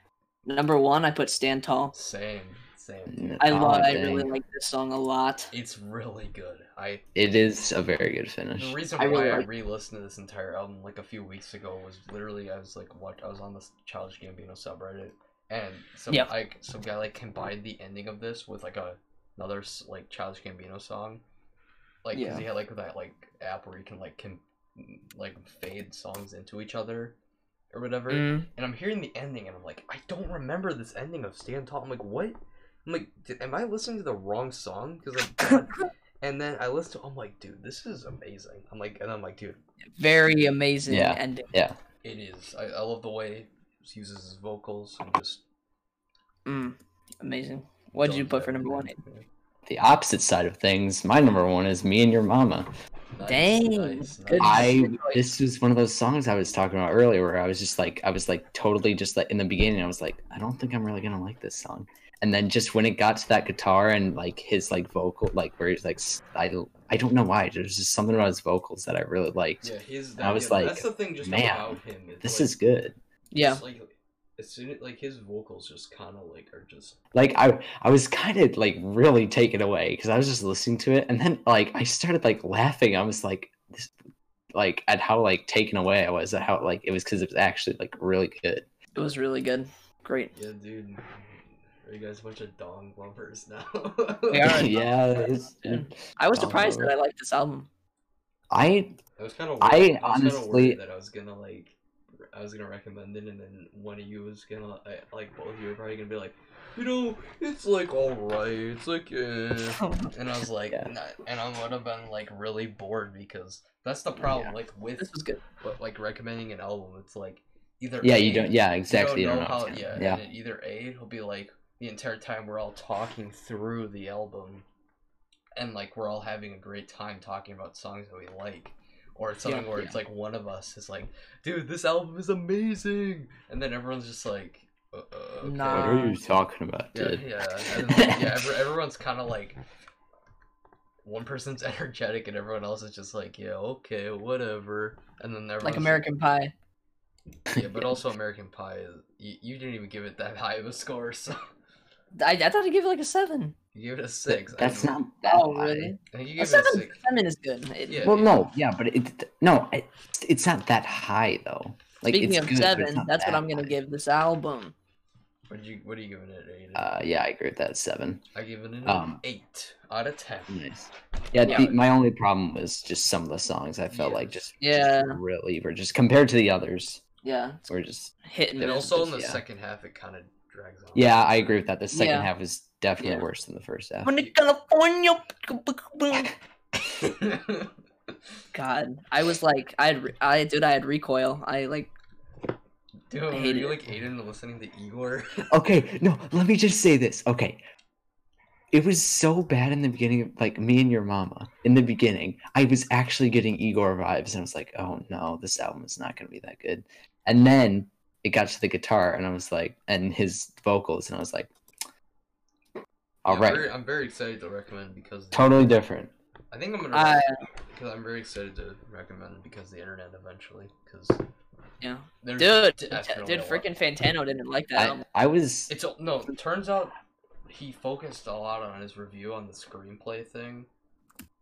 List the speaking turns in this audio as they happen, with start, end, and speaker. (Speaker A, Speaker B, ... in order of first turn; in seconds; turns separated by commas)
Speaker A: 0.5-1.9, Speaker B: 1.9-4.2, Speaker C: 3.1-4.3, Speaker A: 3.4-5.5, Speaker B: 5.5-7.1, Speaker C: 7.1-8.8, Speaker B: 8.6-21.2, Speaker A: 9.0-9.5, Speaker B: 22.0-27.1, Speaker A: 22.1-22.4, Speaker B: 27.7-39.6, Speaker A: 28.1-28.5, Speaker A: 40.0-41.5, Speaker C: 40.9-41.8, Speaker B: 42.0-45.4, Speaker A: 46.5-49.0, Speaker B: 48.0-49.2, Speaker C: 49.6-52.7, Speaker B: 53.1-54.8, Speaker A: 53.2-55.2, Speaker C: 54.4-73.0, Speaker B: 69.6-72.5, Speaker A: 73.3-73.6, Speaker B: 73.4-77.0, Speaker C: 77.1-83.9, Speaker C: 84.5-88.7, Speaker A: 88.9-90.3, Speaker B: 90.3-94.7, Speaker A: 94.3-94.8, Speaker C: 94.4-96.9, Speaker A: 95.6-97.7, Speaker C: 98.5-99.0, Speaker B: 99.2-101.8, Speaker C: 99.6-100.8, Speaker B: 102.3-124.6, Speaker A: 109.8-110.1, Speaker C: 114.2-114.5, Speaker A: 115.0-115.4, Speaker C: 118.0-120.2, Speaker B: 125.5-136.0, Speaker A: 135.4-136.1, Speaker C: 135.6-138.5, Speaker B: 136.9-139.6, Speaker B: 141.0-146.0, Speaker A: 145.6-146.5, Speaker B: 147.5-151.4, Speaker A: 152.1-153.5, Speaker B: 153.7-155.0, Speaker C: 154.3-155.9, Speaker A: 155.2-158.1, Speaker B: 156.1-157.0, Speaker B: 157.9-158.4, Speaker C: 158.0-163.8, Speaker A: 162.1-164.7, Speaker B: 165.5-166.9, Speaker C: 166.7-168.2, Speaker B: 168.3-170.5, Speaker C: 168.8-169.2, Speaker C: 170.5-177.0, Speaker A: 171.4-171.7, Speaker B: 173.9-174.5, Speaker A: 174.6-175.2, Speaker A: 177.2-177.7, Speaker C: 177.7-179.4, Speaker A: 178.2-178.8, Speaker B: 178.6-181.3, Speaker C: 180.9-184.1, Speaker A: 181.9-182.3, Speaker A: 183.0-183.2, Speaker A: 184.0-186.3, Speaker B: 187.0-187.7, Speaker A: 188.5-191.9, Speaker B: 193.1-195.5, Speaker A: 193.3-193.8, Speaker C: 195.5-197.6, Speaker C: 198.7-211.5, Speaker C: 213.2-213.7, Speaker B: 213.2-215.8, Speaker C: 215.3-216.1, Speaker B: 216.5-221.2, Speaker A: 216.9-217.4, Speaker A: 221.8-225.0, Speaker B: 222.2-223.7, Speaker C: 224.7-225.7, Speaker B: 225.7-226.9, Speaker B: 227.5-230.7